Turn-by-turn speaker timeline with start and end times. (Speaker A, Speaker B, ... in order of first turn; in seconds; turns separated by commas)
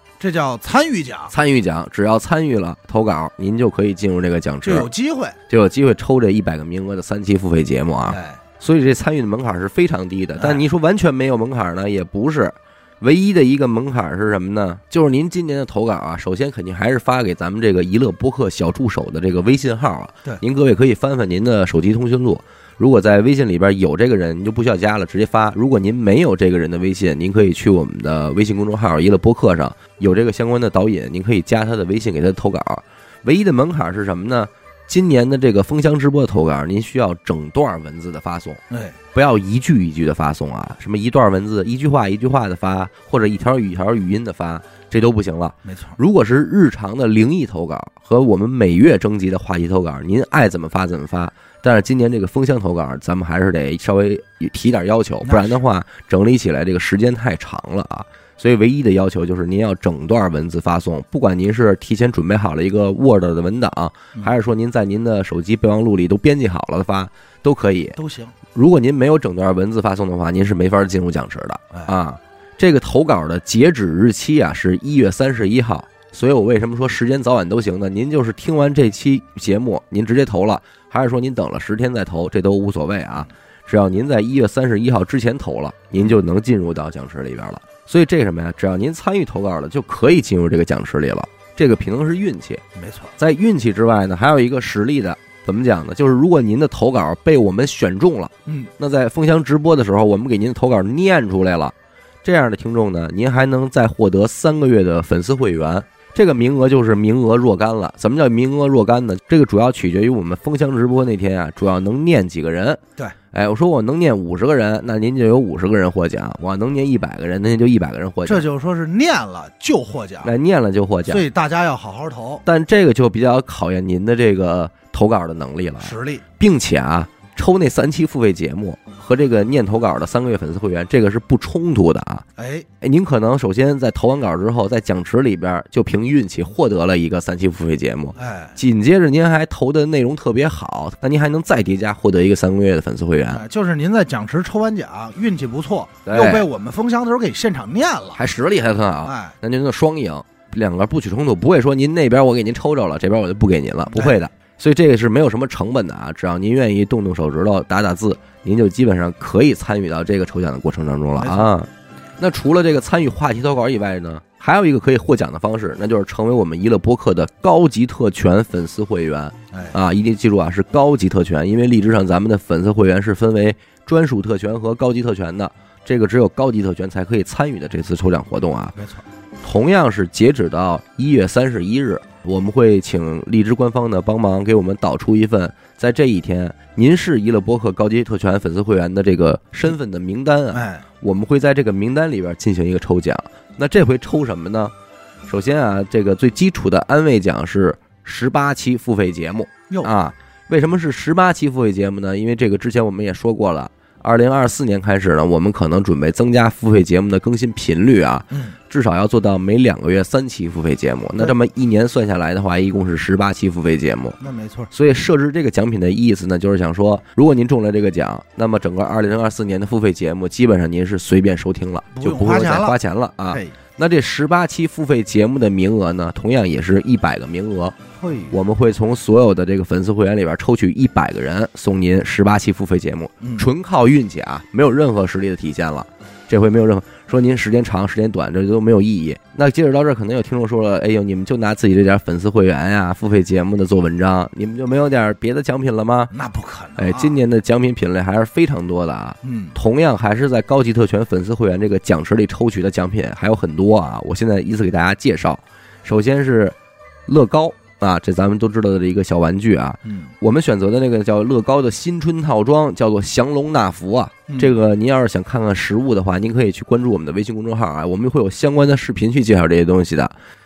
Speaker A: 0.2-1.3, Speaker B: 1.3-4.9, Speaker A: 4.6-5.4, Speaker B: 5.5-38.6, Speaker A: 8.1-8.4, Speaker A: 38.7-39.0, Speaker B: 39.1-68.0, Speaker A: 45.6-46.0, Speaker A: 55.2-55.6, Speaker A: 68.0-68.3, Speaker B: 68.5-92.6, Speaker A: 92.8-93.1, Speaker B: 93.2-112.8, Speaker B: 113.3-118.5, Speaker A: 118.3-120.3, Speaker B: 120.2-121.3, Speaker A: 121.1-122.4, Speaker B: 122.4-132.2, Speaker A: 125.8-126.2, Speaker A: 132.4-132.7, Speaker B: 132.8-143.4, Speaker A: 138.2-138.6, Speaker A: 143.3-148.2, Speaker B: 146.1-146.5, Speaker B: 148.2-178.8, Speaker A: 149.0-149.3, Speaker A: 153.9-154.2, Speaker A: 161.2-161.5, Speaker A: 178.8-179.0, Speaker B: 179.4-194.7, Speaker A: 190.5-190.8, Speaker B: 195.3-214.2, Speaker A: 214.2-214.7, Speaker B: 214.7-227.8, Speaker A: 221.9-222.8, Speaker A: 223.3-223.6, Speaker A: 228.0-228.3, Speaker B: 228.3-246.1, Speaker A: 246.1-247.2, Speaker B: 246.8-256.6, Speaker A: 249.2-249.6, Speaker B: 257.1-270.1